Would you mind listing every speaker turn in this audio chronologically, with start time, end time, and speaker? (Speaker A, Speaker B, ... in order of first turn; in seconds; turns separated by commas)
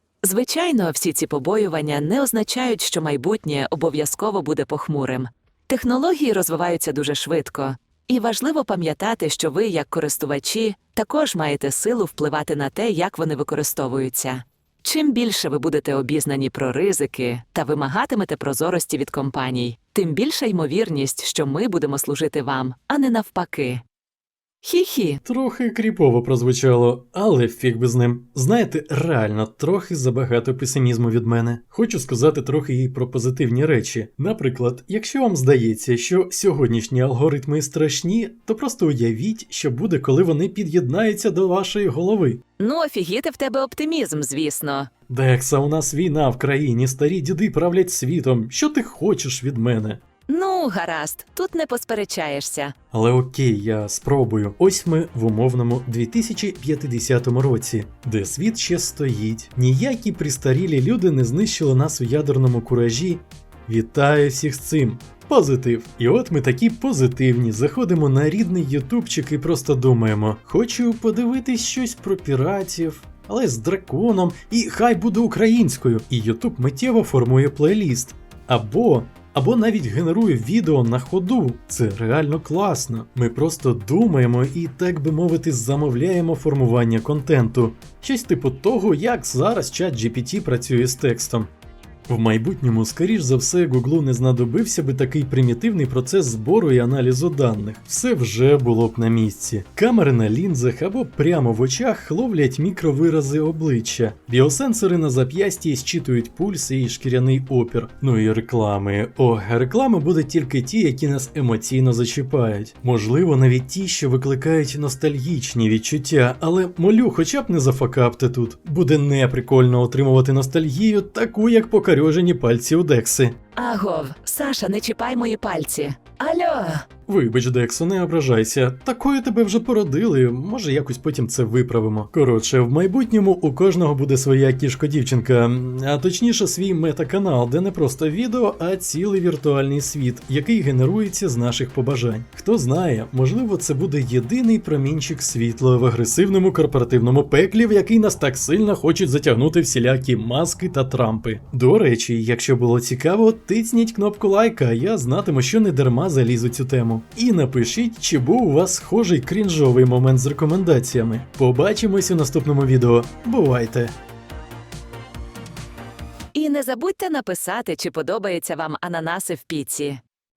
Speaker A: 0.2-23.8, Speaker A: 24.6-25.2, Speaker B: 25.2-42.4, Speaker A: 42.6-44.9, Speaker B: 45.1-50.0, Speaker A: 50.3-52.7, Speaker B: 52.9-91.5, Speaker B: 92.1-123.4, Speaker A: 123.6-126.9, Speaker B: 127.1-163.9, Speaker A: 166.3-170.0